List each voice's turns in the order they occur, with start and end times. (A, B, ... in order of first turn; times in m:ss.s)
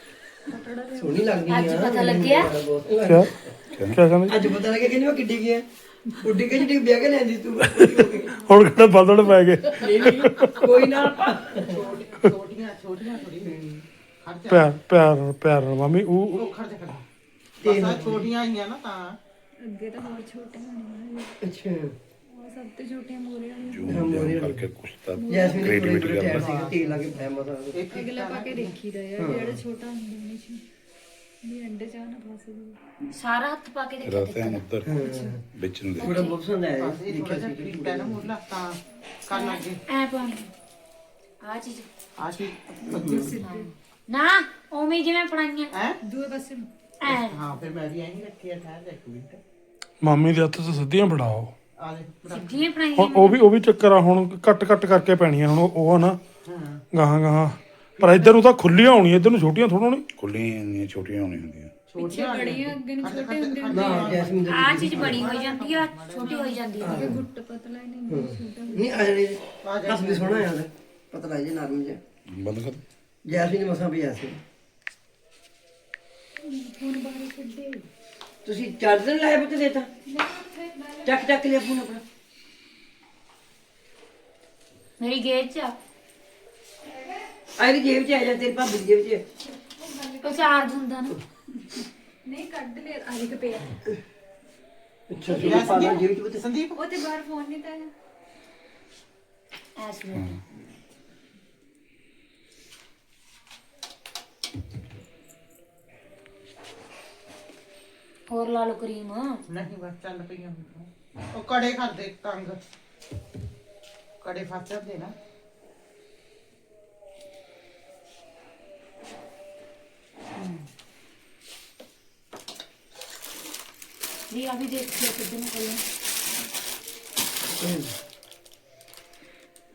0:00.5-0:02.0 A
0:01.0-0:03.5 B
0:01.5-0:02.5 C
0:03.0-0:03.3 D
0:03.9-0:04.4 D
0:04.3-0:08.3 B
0:07.7-0:10.6 D
0:09.8-0:11.8 B
0:11.6-0:13.6 E
0:13.4-0:13.8 B
0:14.2-0:14.7 E
0:14.5-0:16.4 D
0:16.4-0:17.0 E
0:17.6-0:19.2 E
0:17.6-0:18.3 B
0:19.6-0:21.4 A
0:21.4-0:22.0 B
0:22.4-0:24.2 A
0:23.7-0:26.5 F
0:23.9-0:24.7 B
0:25.1-0:26.0 A
0:25.3-0:27.8 B
0:26.3-0:28.8 E
0:27.9-0:30.6 A
0:29.2-0:29.6 B
0:31.4-0:32.8 A
0:33.1-0:34.6 C
0:34.0-0:35.0 F
0:34.8-0:35.4 B
0:35.0-0:35.4 A
0:35.5-0:36.2 F
0:36.0-0:38.3 B
0:36.0-0:36.3 C
0:36.8-0:39.8 E
0:39.3-0:40.5 C
0:41.4-0:41.9 C
0:42.2-0:43.4 E
0:42.9-0:43.7 A
0:42.9-0:43.3 B
0:43.4-0:45.7 C
0:46.0-0:46.7 A
0:47.0-0:47.4 C
0:47.1-0:49.4 E
0:50.0-0:51.5 D
0:51.8-0:52.7 E
0:52.3-0:53.4 C
0:53.0-0:56.2 D
0:56.4-0:56.8 E
0:56.9-1:00.0 D
0:58.0-0:58.4 E
1:00.2-1:01.7 F
1:01.9-1:06.6 E
1:02.0-1:04.4 A
1:03.7-1:05.3 B
1:04.5-1:07.1 C
1:06.8-1:07.2 B
1:06.8-1:09.1 A
1:08.1-1:12.0 B
1:09.6-1:10.5 E
1:12.3-1:12.8 F
1:13.2-1:14.4 B
1:16.4-1:17.9 A
1:18.4-1:19.9 B
1:20.1-1:21.3 A
1:21.0-1:22.0 B
1:25.0-1:25.7 C
1:26.9-1:27.2 A
1:27.6-1:29.2 B
1:29.6-1:30.8 A
1:30.2-1:31.2 C
1:32.3-1:33.8 A
1:35.1-1:36.4 B
1:35.3-1:36.0 A
1:35.3-1:36.8 E
1:36.7-1:37.9 A
1:39.8-1:40.4 C
1:48.3-1:49.4 C
1:49.5-1:52.6 E
1:54.2-1:55.1 E
2:00.4-2:00.6 E
2:04.3-2:05.8 C
2:07.5-2:07.9 B